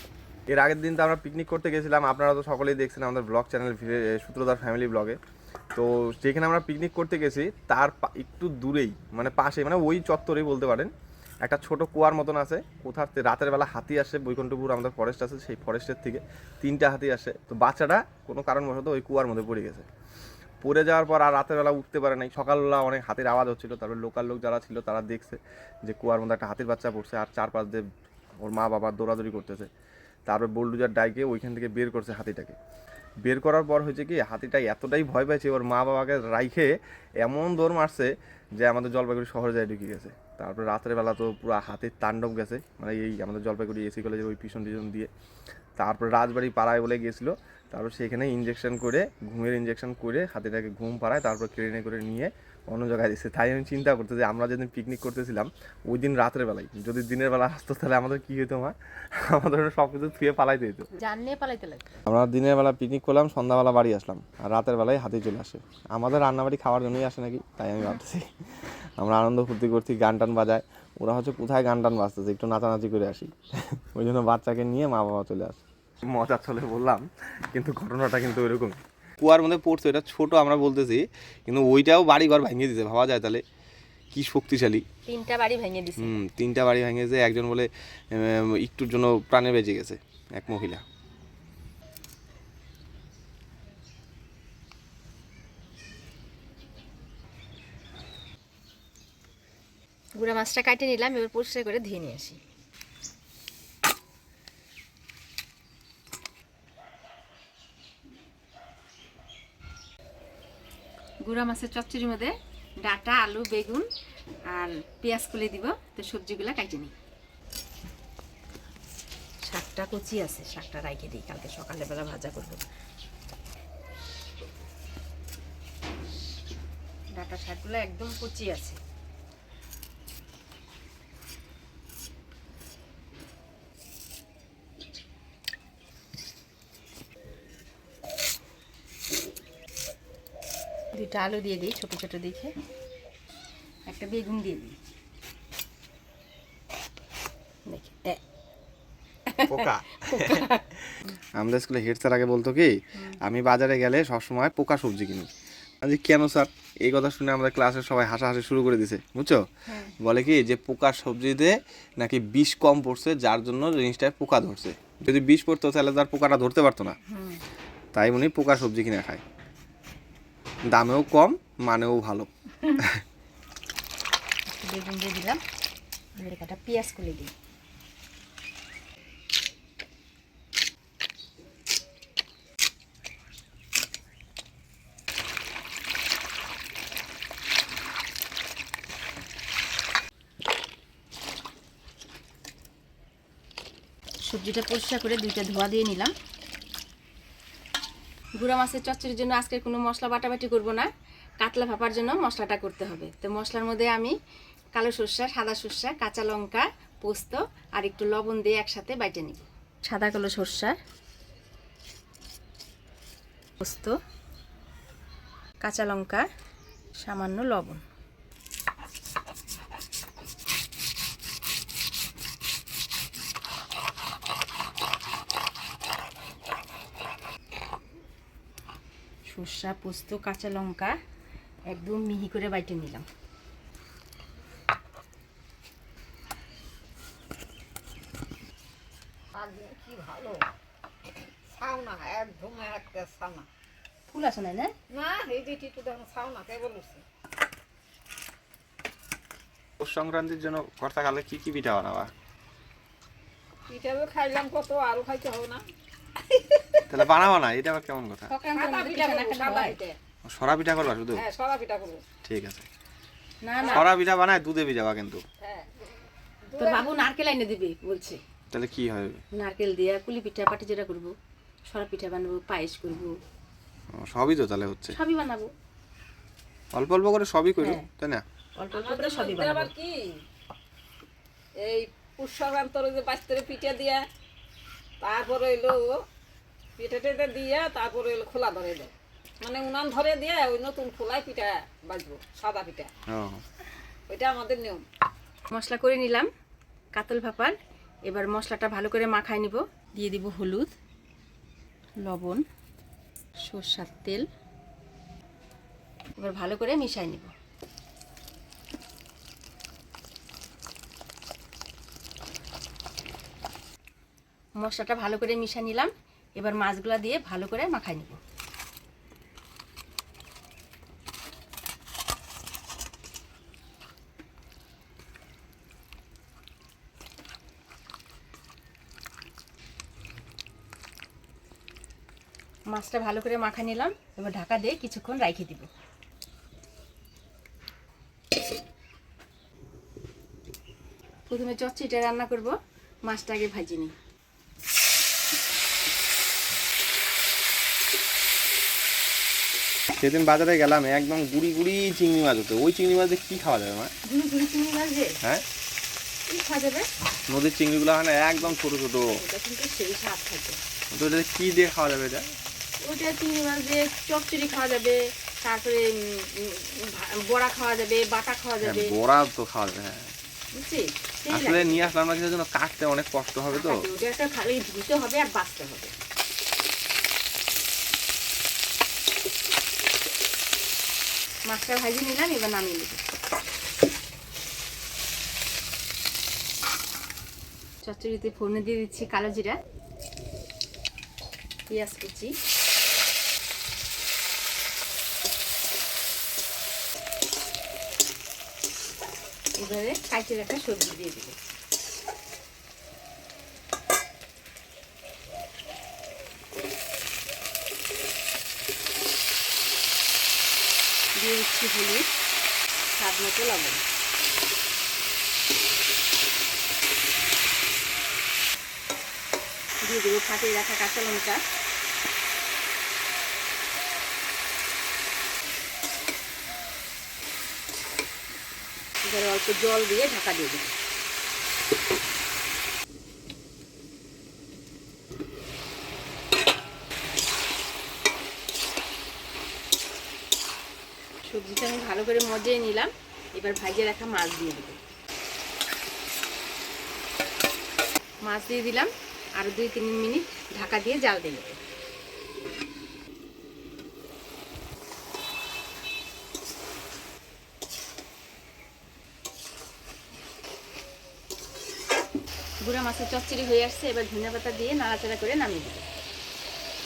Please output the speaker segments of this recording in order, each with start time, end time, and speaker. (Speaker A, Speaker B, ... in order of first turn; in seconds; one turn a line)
Speaker A: 0.5-5.2
Speaker A: 5.7-10.9
Speaker A: 11.4-19.9
Speaker A: 20.6-27.8
Speaker A: 28.4-29.7
Speaker A: 30.3-32.6
Speaker A: 33.2-45.1
Speaker A: 45.8-60.9
Speaker B: 60.9-61.9
Speaker A: 62.0-83.4
Speaker A: 84.1-84.8
Speaker B: 85.1-86.2
Speaker A: 86.0-90.8
Speaker B: 100.2-102.4
Speaker B: 111.2-113.8
Speaker B: 114.5-116.9
Speaker B: 119.4-122.6
Speaker B: 127.1-128.8
Speaker B: 140.9-142.5
Speaker B: 143.9-144.8
Speaker B: 147.7-148.2
Speaker B: 149.3-151.2
Speaker A: 149.5-155.3
Speaker A: 155.8-159.4
Speaker B: 159.7-159.9
Speaker A: 160.0-167.0
Speaker B: 167.1-167.4
Speaker A: 167.9-169.2
Speaker A: 170.7-173.0
Speaker B: 174.5-175.4
Speaker B: 176.2-177.3
Speaker B: 194.2-196.1
Speaker B: 198.4-200.9
Speaker B: 201.4-204.1
Speaker B: 204.7-210.8
Speaker B: 213.6-213.9
Speaker B: 215.6-216.2
Speaker B: 217.0-217.8
Speaker B: 229.2-230.9
Speaker B: 231.7-233.1
Speaker C: 239.3-240.4
Speaker C: 241.6-243.5
Speaker B: 244.1-244.7
Speaker C: 244.9-247.0
Speaker A: 249.8-252.1
Speaker C: 253.7-255.6
Speaker C: 256.2-256.8
Speaker A: 256.9-258.3
Speaker B: 258.3-259.8
Speaker C: 258.5-260.0
Speaker A: 260.2-261.2
Speaker C: 261.1-262.0
Speaker A: 262.2-262.6
Speaker B: 263.4-263.9
Speaker C: 263.6-263.8
Speaker A: 263.7-265.2
Speaker C: 265.4-265.7
Speaker C: 266.5-267.0
Speaker B: 266.6-268.2
Speaker A: 268.5-269.2
Speaker B: 269.3-271.1
Speaker B: 271.7-273.1
Speaker A: 273.9-275.0
Speaker B: 274.9-275.5
Speaker A: 276.7-278.2
Speaker B: 277.6-277.9
Speaker B: 278.6-279.7
Speaker C: 278.7-280.2
Speaker C: 281.6-284.0
Speaker C: 285.0-286.0
Speaker C: 286.8-292.9
Speaker A: 293.1-293.4
Speaker C: 294.1-294.8
Speaker B: 295.5-296.3
Speaker B: 296.9-300.7
Speaker B: 302.0-302.4
Speaker B: 303.4-304.3
Speaker B: 306.2-307.3
Speaker B: 314.6-318.2
Speaker B: 332.7-335.7
Speaker B: 341.3-343.9
Speaker A: 349.9-353.9
Speaker B: 354.0-355.2
Speaker B: 356.3-356.9
Speaker A: 357.3-359.2
Speaker B: 359.2-360.6
Speaker A: 360.9-362.3
Speaker B: 362.8-368.9
Speaker A: 368.6-370.1
Speaker B: 370.5-371.9
Speaker A: 371.3-373.8
Speaker B: 373.5-375.9
Speaker B: 381.4-383.0
Speaker B: 387.8-389.6
Speaker B: 391.7-392.3
Speaker B: 399.6-401.4
Speaker B: 411.1-412.1
Speaker B: 412.9-413.8
Speaker B: 419.8-421.4
Speaker B: 429.0-430.7
Speaker B: 441.2-444.8
Speaker B: 448.2-451.6
Speaker B: 462.6-465.9